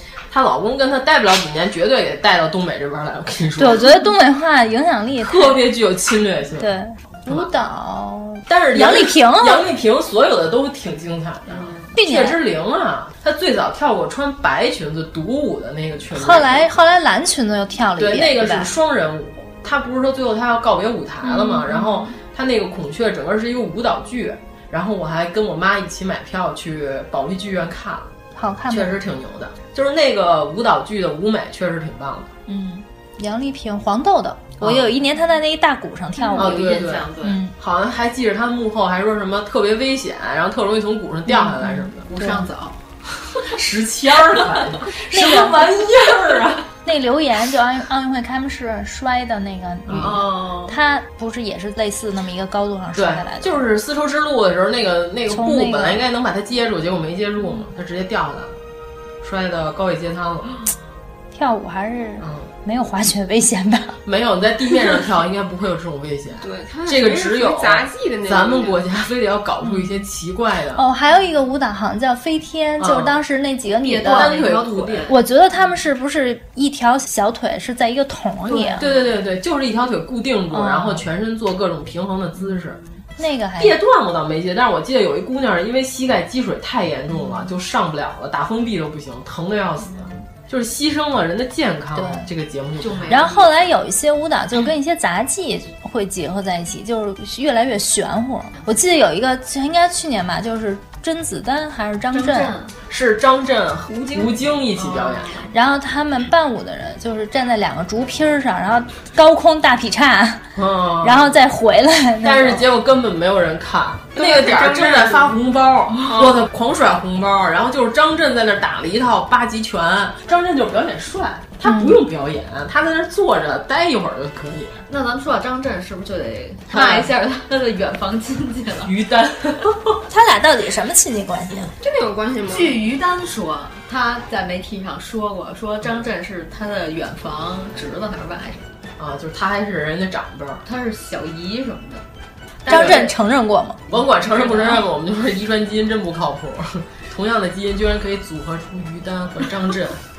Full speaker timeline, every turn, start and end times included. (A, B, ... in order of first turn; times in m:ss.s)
0:00.3-0:04.1 A
0:03.6-0:05.6 B
0:05.2-0:06.7 A
0:06.6-0:09.6 B
0:07.3-0:07.5 A
0:08.5-0:16.7 A
0:11.5-0:11.9 C
0:12.0-0:12.4 B
0:16.1-0:18.7 B
0:18.0-0:28.1 A
0:21.2-0:22.0 B
0:28.4-0:29.0 B
0:28.7-0:32.3 A
0:32.5-0:36.7 B
0:34.6-0:34.9 A
0:36.2-0:37.4 C
0:36.4-0:42.1 A
0:37.2-0:37.5 B
0:41.3-0:42.5 B
0:42.1-0:42.8 C
0:43.4-0:46.7 A
0:45.1-0:45.7 B
0:46.8-0:53.6 B
0:49.9-0:50.2 A
0:49.9-0:50.8 C
0:53.0-0:58.6 A
0:55.3-0:56.0 B
0:59.2-1:00.6 A
1:01.3-1:04.0 B
1:02.2-1:02.5 A
1:04.0-1:10.8 A
1:06.4-1:08.8 D
1:10.8-1:14.3 B
1:12.8-1:13.2 A
1:13.8-1:15.2 C
1:14.1-1:15.1 A
1:15.1-1:18.8 B
1:18.5-1:19.1 C
1:18.8-1:22.8 A
1:20.5-1:21.0 B
1:23.2-1:23.8 B
1:23.6-1:33.3 A
1:32.0-1:32.3 B
1:32.8-1:33.5 C
1:33.1-1:42.5 B
1:42.1-1:42.7 C
1:42.9-1:45.5 A
1:44.7-1:45.5 C
1:45.5-1:52.6 B
1:50.6-1:51.4 A
1:52.2-2:04.8 A
1:54.2-1:55.1 C
1:56.1-1:56.4 D
2:01.6-2:02.0 B
2:04.9-2:08.9 C
2:06.7-2:07.1 A
2:08.8-2:10.0 A
2:10.1-2:11.7 B
2:11.8-2:12.8 D
2:12.5-2:18.7 C
2:19.0-2:20.6 A
2:20.6-2:22.0 C
2:22.6-2:23.2 A
2:22.7-2:23.8 B
2:23.9-2:30.0 A
2:24.2-2:24.8 C